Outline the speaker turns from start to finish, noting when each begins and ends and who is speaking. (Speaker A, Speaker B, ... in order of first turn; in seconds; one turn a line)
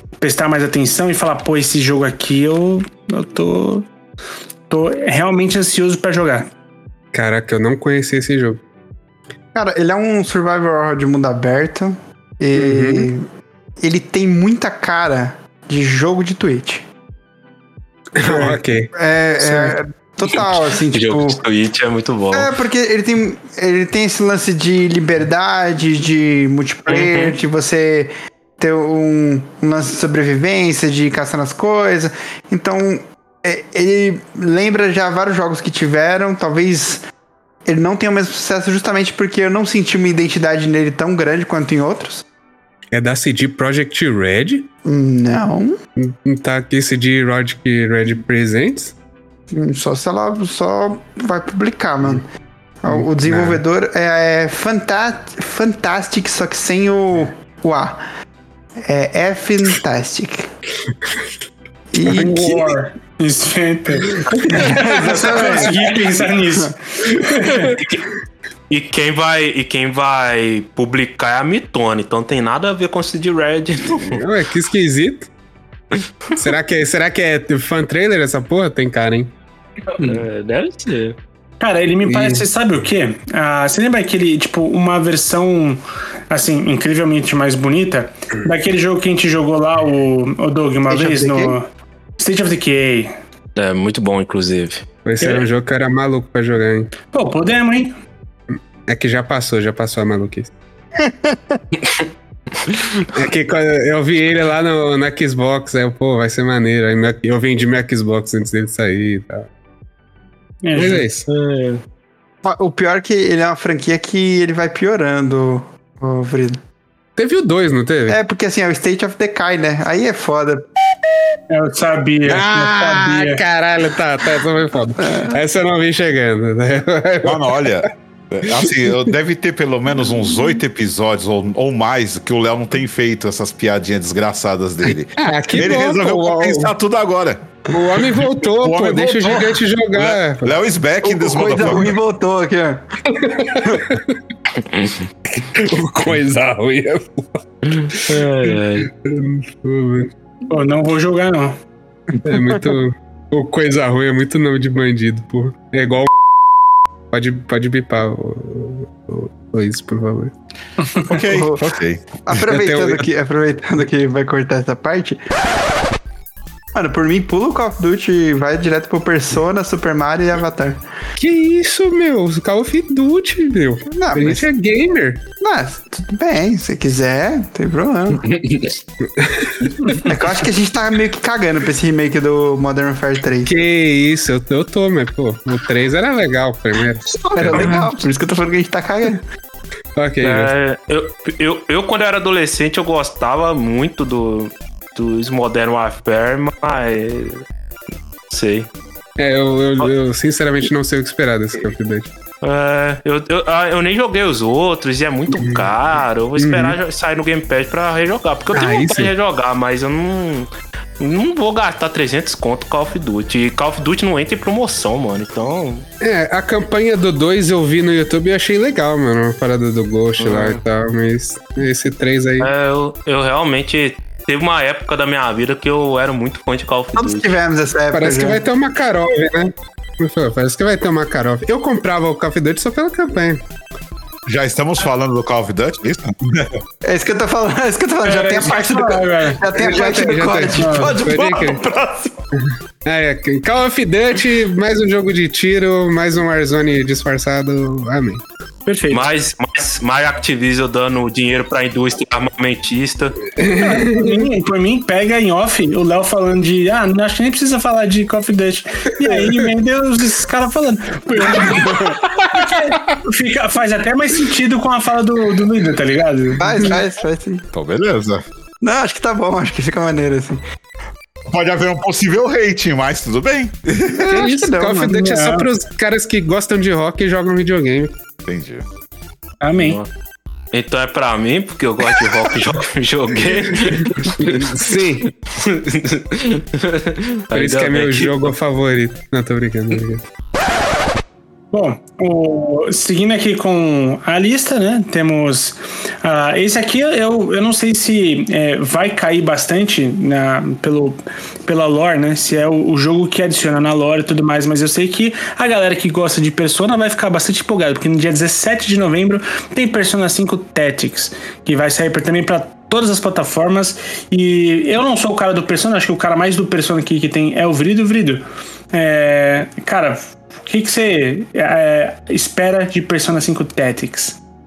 Speaker A: 0.2-3.9
Speaker A: 4.7-6.5
Speaker B: 7.1-8.6
Speaker C: 9.5-13.2
Speaker B: 12.5-13.1
Speaker C: 13.8-16.8
Speaker B: 18.1-19.8
Speaker C: 18.2-21.4
Speaker D: 20.2-22.5
Speaker C: 22.3-37.0
Speaker D: 26.9-27.4
Speaker C: 37.6-42.2
Speaker B: 42.9-44.7
Speaker C: 44.8-45.8
Speaker B: 46.0-48.9
Speaker C: 49.5-52.2
Speaker C: 52.8-58.0
Speaker B: 52.9-53.6
Speaker C: 58.9-60.5
Speaker C: 61.9-62.7
Speaker A: 62.1-67.8
Speaker B: 64.1-65.7
Speaker C: 64.5-66.3
Speaker D: 67.8-68.0
Speaker D: 68.7-74.2
Speaker B: 74.0-75.3
Speaker B: 76.4-79.3
Speaker D: 79.9-81.2
Speaker A: 81.6-93.1
Speaker B: 82.0-82.5
Speaker C: 90.9-91.5
Speaker D: 93.5-94.8
Speaker B: 95.0-96.9
Speaker A: 95.2-95.4
Speaker A: 97.1-97.9
Speaker B: 98.9-100.5
Speaker C: 101.0-101.6
Speaker B: 103.1-109.5
Speaker A: 110.6-111.0
Speaker B: 110.7-111.3
Speaker D: 110.8-111.8
Speaker C: 112.4-116.6
Speaker B: 117.2-118.2
Speaker C: 118.1-120.6
Speaker A: 121.5-123.4
Speaker B: 122.2-127.8
Speaker C: 125.0-125.3
Speaker E: 127.2-141.9
Speaker B: 128.4-129.1
Speaker B: 134.8-136.7
Speaker B: 137.7-140.5
Speaker C: 141.0-142.8
Speaker B: 143.1-144.1
Speaker C: 143.4-143.9
Speaker B: 145.3-150.1
Speaker D: 147.7-148.9
Speaker A: 150.5-151.6
Speaker B: 152.2-156.1
Speaker C: 152.3-152.6
Speaker B: 157.1-160.3
Speaker E: 161.0-162.2
Speaker C: 161.2-165.3
Speaker B: 162.5-163.1
Speaker C: 166.7-170.8
Speaker B: 171.2-175.2
Speaker C: 173.9-174.4
Speaker C: 175.4-178.4
Speaker D: 178.3-178.7
Speaker B: 179.2-179.7
Speaker C: 179.9-183.5
Speaker B: 183.4-187.9
Speaker C: 187.1-189.2
Speaker B: 189.9-190.5
Speaker D: 190.2-197.4
Speaker D: 198.3-198.7
Speaker B: 199.2-202.1
Speaker D: 202.4-210.5
Speaker B: 205.4-205.7
Speaker B: 206.4-206.8
Speaker B: 208.5-209.1
Speaker D: 211.0-215.8
Speaker B: 216.0-222.5
Speaker D: 220.2-220.6
Speaker D: 222.4-227.3
Speaker C: 226.9-228.4
Speaker B: 227.9-233.4
Speaker E: 234.3-236.5
Speaker C: 236.8-242.2
Speaker A: 238.0-239.5
Speaker B: 239.5-241.6
Speaker A: 240.5-241.0
Speaker B: 242.4-248.2
Speaker A: 248.7-249.0
Speaker D: 248.9-253.2
Speaker B: 253.4-254.2
Speaker A: 253.5-266.7
Speaker B: 259.1-259.5
Speaker B: 261.5-261.7
Speaker C: 266.4-267.5
Speaker E: 267.5-268.2
Speaker C: 268.6-270.4
Speaker E: 271.3-274.1
Speaker C: 273.9-275.0
Speaker B: 274.0-278.0
Speaker A: 274.9-275.5
Speaker E: 278.2-278.6
Speaker A: 279.4-279.8
Speaker D: 279.6-279.9
Speaker D: 280.5-284.8
Speaker B: 284.2-285.1
Speaker D: 285.3-288.3
Speaker B: 287.3-290.0
Speaker A: 291.5-324.2